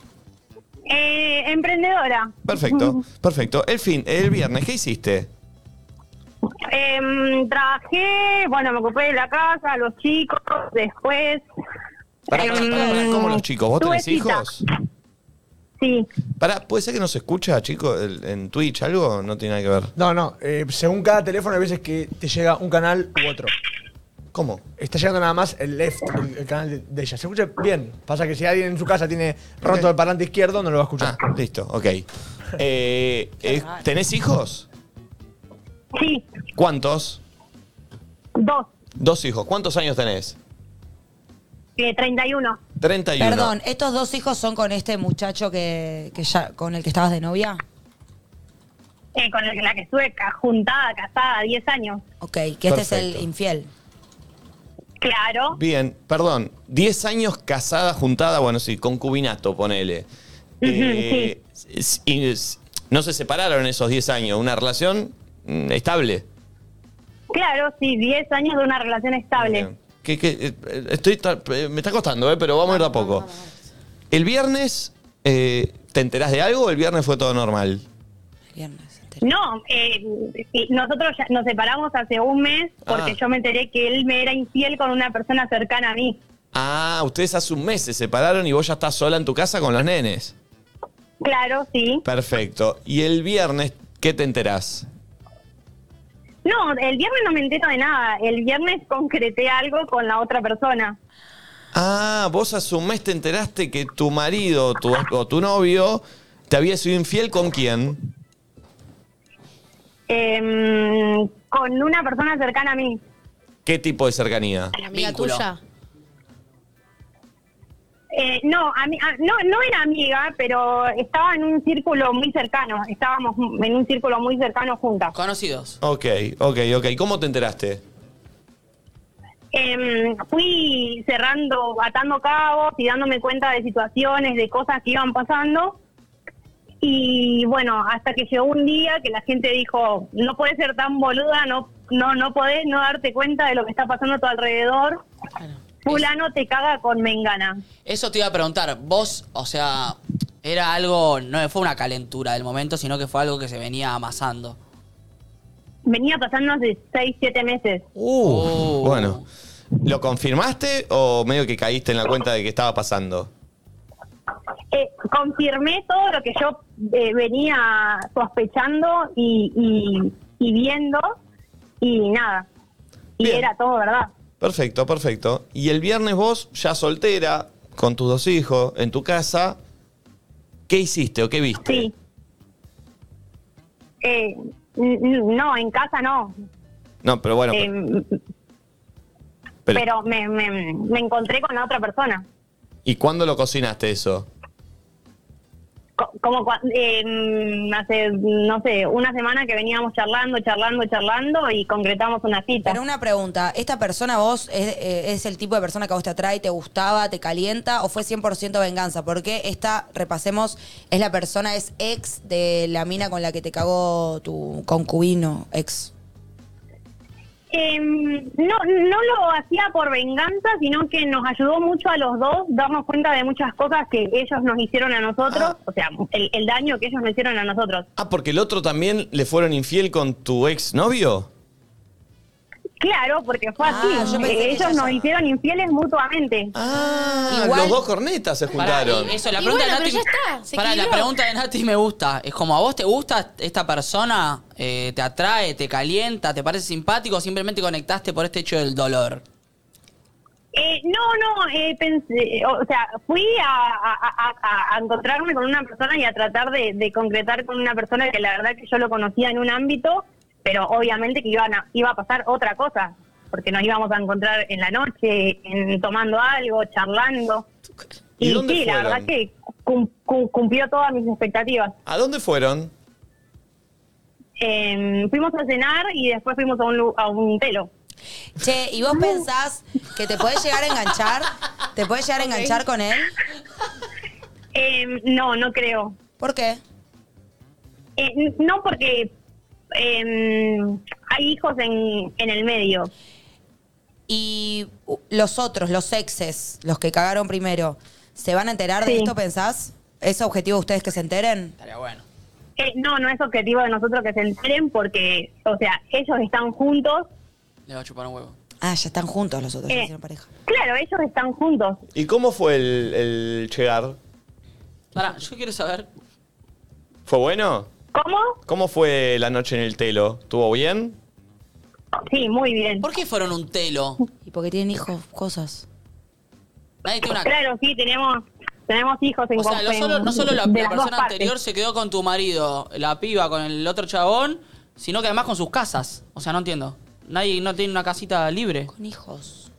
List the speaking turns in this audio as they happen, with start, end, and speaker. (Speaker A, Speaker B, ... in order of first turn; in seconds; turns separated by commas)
Speaker A: 0.9-3.0, Speaker B: 2.5-5.3, Speaker A: 6.7-11.4, Speaker A: 12.3-14.6, Speaker B: 12.3-14.6, Speaker A: 15.8-16.1, Speaker B: 16.4-19.9, Speaker C: 20.0-23.5, Speaker B: 24.3-24.6, Speaker C: 24.8-31.2, Speaker B: 31.0-32.1, Speaker B: 32.6-34.7, Speaker D: 33.4-33.9, Speaker A: 36.0-36.3, Speaker B: 36.5-37.2, Speaker A: 38.4-38.7, Speaker B: 39.0-40.4, Speaker A: 41.8-42.6, Speaker B: 42.8-43.5, Speaker D: 43.2-47.6, Speaker A: 49.1-52.0, Speaker D: 52.2-53.7, Speaker B: 52.7-53.2, Speaker A: 55.0-55.6, Speaker B: 55.5-60.1, Speaker A: 60.6-61.3, Speaker B: 60.6-66.2, Speaker A: 67.3-69.7, Speaker B: 69.4-73.3, Speaker D: 72.7-73.5, Speaker B: 74.1-77.8, Speaker D: 78.5-79.2, Speaker A: 79.2-86.2, Speaker B: 82.9-83.2, Speaker B: 86.5-90.3, Speaker A: 91.2-92.0, Speaker B: 92.0-94.9, Speaker A: 96.5-101.0, Speaker B: 101.7-108.0, Speaker A: 110.1-113.0, Speaker B: 113.7-114.8, Speaker E: 114.8-115.6, Speaker F: 114.9-115.5, Speaker A: 118.1-125.1, Speaker F: 125.1-125.8, Speaker B: 125.8-127.8, Speaker A: 129.5-135.8, Speaker A: 136.8-145.0, Speaker A: 145.8-147.6, Speaker F: 147.9-154.6, Speaker A: 155.8-157.9, Speaker B: 158.0-159.2, Speaker F: 158.2-159.2, Speaker B: 159.8-163.3, Speaker A: 164.7-171.2, Speaker A: 171.8-172.5, Speaker A: 173.2-174.1, Speaker B: 173.2-173.5, Speaker B: 174.4-179.6, Speaker B: 180.7-181.9, Speaker A: 181.6-181.9, Speaker A: 184.0-186.3, Speaker B: 187.0-187.7, Speaker A: 187.5-188.2, Speaker A: 189.7-192.2, Speaker B: 192.8-194.3, Speaker A: 196.0-202.8, Speaker D: 202.7-215.9, Speaker A: 217.5-227.9, Speaker B: 228.0-231.3, Speaker A: 232.8-236.5, Speaker D: 233.6-235.1, Speaker B: 236.5-239.1, Speaker D: 237.3-237.8, Speaker F: 238.6-249.2, Speaker E: 239.3-241.1, Speaker A: 250.5-267.5, Speaker A: 268.2-271.8, Speaker B: 268.2-269.1, Speaker B: 271.9-272.7, Speaker A: 274.4-277.7, Speaker D: 278.4-283.1, Speaker A: 284.6-286.0, Speaker D: 286.2-286.6, Speaker A: 288.0-289.1, Speaker A: 289.7-292.9, Speaker D: 294.1-301.5, Speaker A: 298.9-299.1, Speaker F: 301.6-302.0, Speaker A: 302.6-307.1, Speaker F: 307.7-308.4, Speaker D: 308.6-310.3, Speaker A: 310.5-311.8, Speaker B: 311.9-314.0, Speaker F: 314.9-315.9, Speaker B: 317.1-317.7, Speaker A: 317.9-318.4, Speaker B: 318.4-321.0, Speaker A: 322.1-322.8, Speaker F: 322.8-324.0, Speaker D: 324.2-325.6, Speaker F: 326.9-327.3, Speaker A: 327.2-331.3, Speaker F: 329.4-338.7, Speaker D: 338.7-339.5